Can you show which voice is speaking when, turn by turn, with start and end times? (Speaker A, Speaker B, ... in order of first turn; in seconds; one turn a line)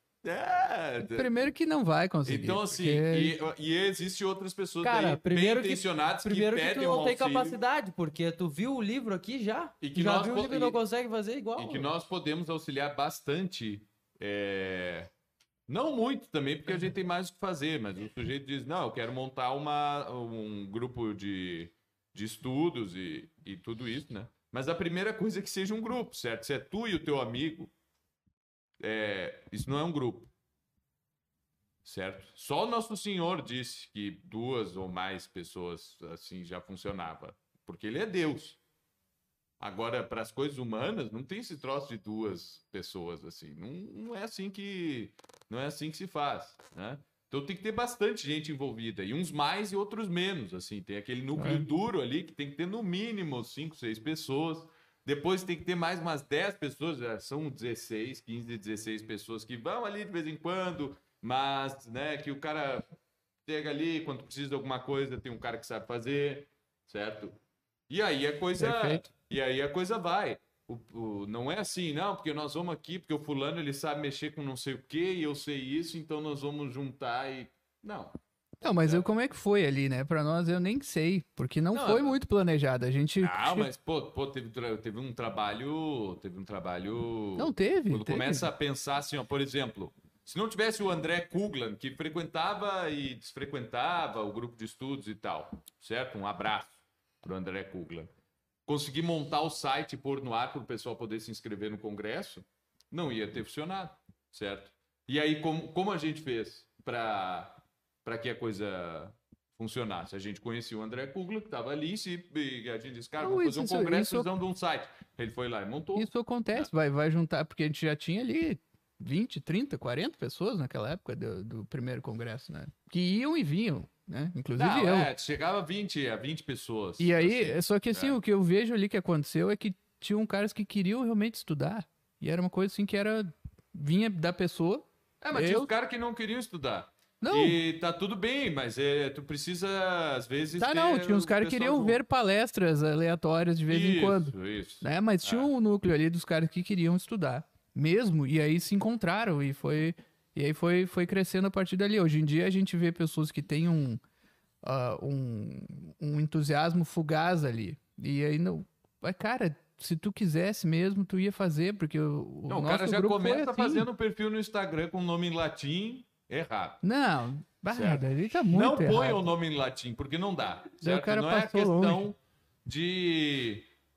Speaker A: 0.2-1.3
Speaker B: 1.1-3.4
Speaker A: 2.2-7.6
Speaker C: 4.8-11.9
Speaker A: 9.8-10.8
Speaker A: 11.6-15.1
Speaker A: 15.7-27.7
Speaker A: 28.8-30.3
Speaker A: 31.8-38.6
Speaker A: 39.6-62.9
Speaker B: 51.4-51.6
Speaker A: 63.5-67.4
Speaker A: 67.9-78.2
Speaker B: 68.6-69.0
Speaker B: 78.6-83.7
Speaker A: 78.7-79.0
Speaker A: 81.7-82.2
Speaker A: 83.2-98.1
Speaker B: 87.4-88.5
Speaker A: 98.7-116.7
Speaker B: 113.2-114.3
Speaker B: 116.0-125.1
Speaker A: 124.5-128.2
Speaker B: 127.0-135.7
Speaker A: 135.2-142.0
Speaker B: 137.2-137.6
Speaker B: 140.6-154.0
Speaker A: 143.7-145.5
Speaker B: 154.6-163.9
Speaker A: 162.5-166.8
Speaker B: 166.8-169.2
Speaker A: 167.7-173.7
Speaker B: 170.8-172.1